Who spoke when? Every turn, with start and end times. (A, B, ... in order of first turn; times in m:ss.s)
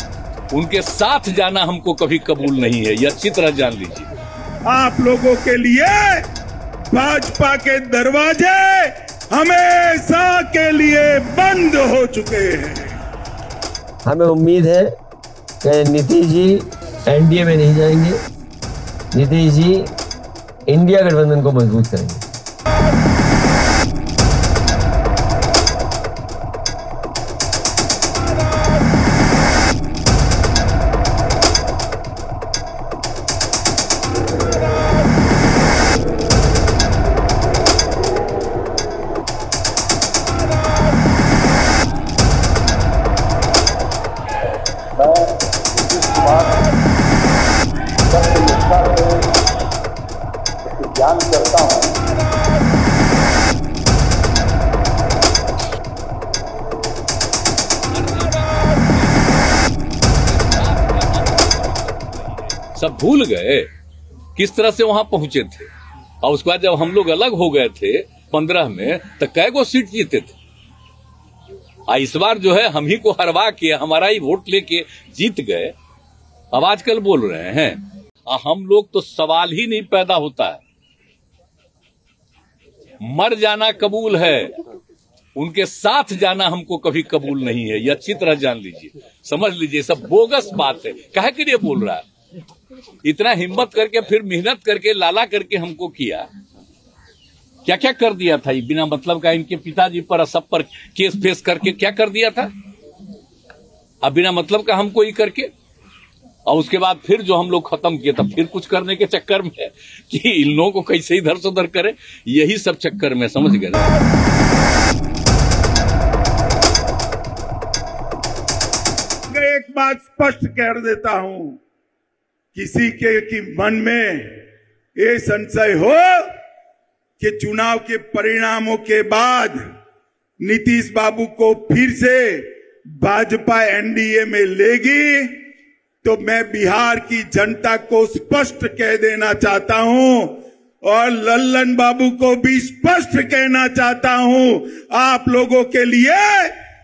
0:00.5-0:04.1 A
0:04.7-0:06.2 B
0:06.9-0:13.0 B
0:14.0-0:14.9 C
0:15.6-0:18.2 C
0:19.1-0:19.9 C
0:20.7-0:22.2 C
0:44.9-0:46.7 D
0:48.0-0:49.4 D
0:50.6-0:52.0 D
0:57.9-0:59.5 A
1:00.1-1:03.7 A
1:04.4-1:05.7 A
1:06.2-1:10.4 A
1:11.9-1:15.7 A
1:16.5-1:20.6 A
1:23.0-1:24.5 A
1:25.4-1:32.0 A
1:33.0-1:36.3 A
1:37.6-1:42.5 A
1:44.0-1:45.5 A
1:46.5-1:53.9 A
1:59.3-2:01.6 B
2:02.5-2:04.4 B
2:05.0-2:06.2 B
2:07.2-2:09.6 B
2:10.4-2:15.4 B
2:16.0-2:26.5 B